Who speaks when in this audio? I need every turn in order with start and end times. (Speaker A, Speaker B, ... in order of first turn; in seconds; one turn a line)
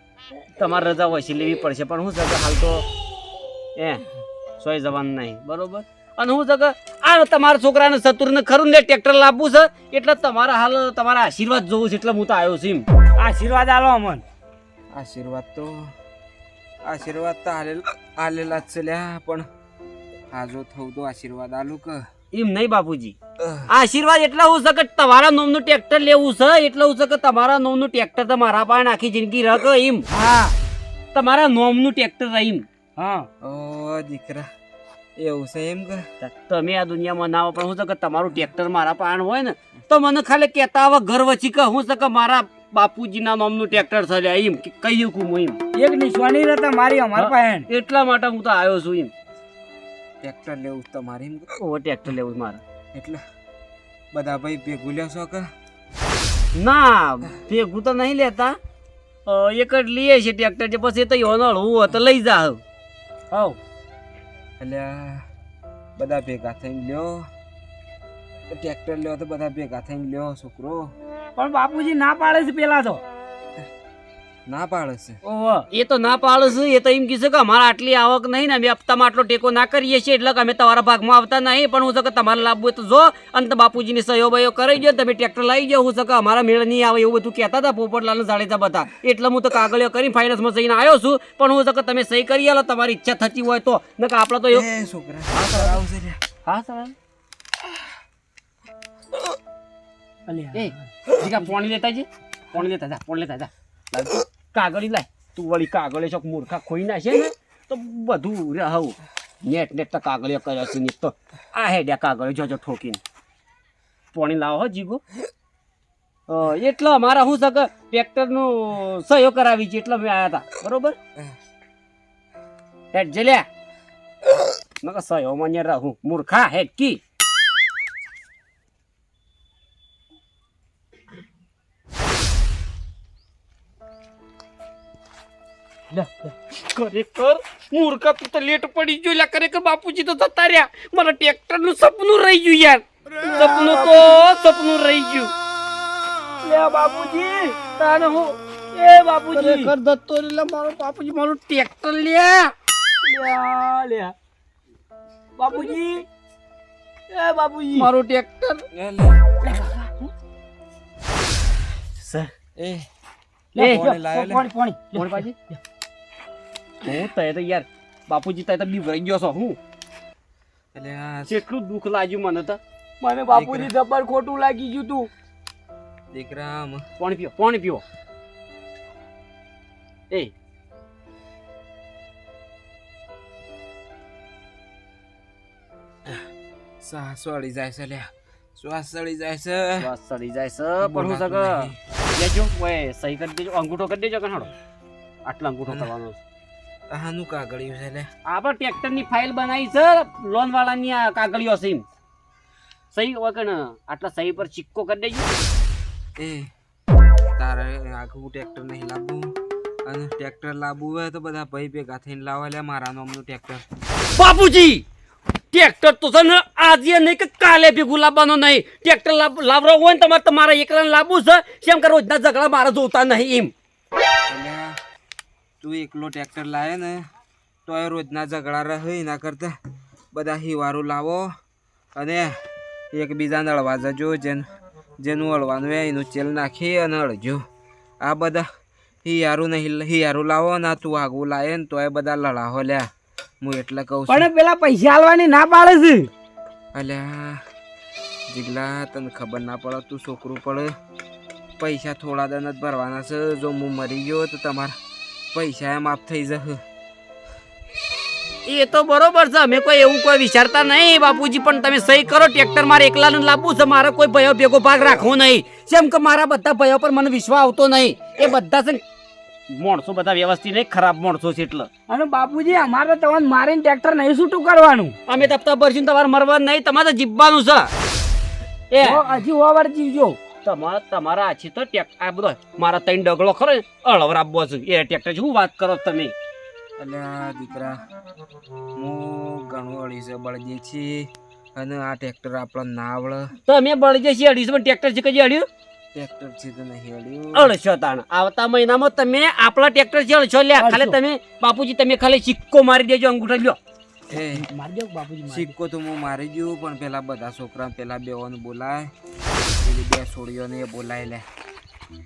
Speaker A: 0.6-2.8
Speaker A: 3.8-4.0
Speaker A: 4.6-12.8
Speaker B: 13.2-14.2
Speaker C: 14.9-15.9
Speaker C: 16.8-19.4
Speaker C: 20.3-22.0
Speaker A: 22.3-23.1
Speaker C: 23.4-23.7
Speaker A: 23.7-30.1
Speaker B: 30.1-30.5
Speaker A: 31.1-32.6
Speaker B: 33.0-33.3
Speaker C: 33.4-34.5
Speaker C: 35.2-36.0
Speaker A: 36.2-45.6
Speaker B: 45.7-47.6
Speaker A: 47.1-49.1
Speaker C: 50.2-51.6
Speaker A: 51.6-52.6
Speaker C: 52.9-53.2
Speaker C: 54.1-55.5
Speaker A: 56.5-58.6
Speaker A: 59.2-62.6
Speaker C: 64.6-65.2
Speaker C: 66.0-67.2
Speaker C: 68.5-70.9
Speaker B: 71.4-73.0
Speaker C: 74.5-75.2
Speaker B: 75.2-75.6
Speaker A: 75.7-94.7
Speaker C: 94.5-96.2
Speaker A: 95.3-95.8
Speaker A: 96.4-96.9
Speaker B: 100.3-100.8
Speaker A: 100.5-113.0
Speaker A: 114.1-115.0
Speaker A: 116.3-121.0
Speaker A: 122.9-123.5
Speaker A: 124.8-127.0
Speaker B: 135.9-136.3
Speaker A: 136.7-145.3
Speaker B: 143.2-144.2
Speaker B: 146.4-147.6
Speaker A: 147.7-149.7
Speaker B: 149.3-150.9
Speaker A: 150.9-152.5
Speaker B: 153.0-154.1
Speaker B: 155.4-156.1
Speaker B: 157.1-157.9
Speaker A: 157.8-158.7
Speaker C: 158.7-159.3
Speaker A: 162.0-162.3
Speaker C: 162.6-162.9
Speaker B: 163.5-165.6
Speaker A: 163.6-163.8
Speaker C: 163.6-164.4
Speaker A: 164.9-165.3
Speaker A: 166.8-169.6
Speaker C: 170.7-171.3
Speaker A: 171.3-172.6
Speaker B: 173.0-175.1
Speaker A: 173.3-173.7
Speaker C: 176.1-176.8
Speaker A: 177.0-177.8
Speaker C: 186.8-189.9
Speaker A: 189.8-194.5
Speaker C: 190.8-191.8
Speaker A: 195.2-196.2
Speaker C: 196.9-198.1
Speaker A: 198.2-201.8
Speaker A: 202.9-205.3
Speaker C: 206.2-206.5
Speaker C: 207.4-209.3
Speaker C: 209.8-213.6
Speaker A: 214.2-214.8
Speaker A: 215.5-223.5
Speaker C: 224.3-224.7
Speaker C: 225.6-227.0
Speaker C: 227.7-229.5
Speaker C: 230.1-231.3
Speaker C: 231.9-232.3
Speaker C: 232.9-234.4
Speaker C: 235.0-237.4
Speaker C: 238.0-238.4
Speaker C: 239.0-242.8
Speaker C: 243.4-244.3
Speaker B: 244.1-246.1
Speaker C: 246.7-247.4
Speaker C: 248.3-250.7
Speaker C: 251.6-254.7
Speaker C: 255.3-256.6
Speaker A: 258.4-268.8
Speaker A: 269.5-271.7
Speaker B: 271.9-274.9
Speaker A: 275.1-277.7
Speaker A: 278.7-279.0
Speaker B: 278.8-280.2
Speaker A: 280.4-286.1
Speaker C: 286.8-287.8
Speaker C: 288.8-293.3
Speaker A: 293.4-295.5
Speaker C: 295.9-297.5
Speaker A: 297.3-303.6
Speaker B: 300.5-301.0
Speaker C: 304.1-304.5
Speaker B: 304.1-305.5
Speaker C: 305.3-308.9
Speaker C: 309.6-311.2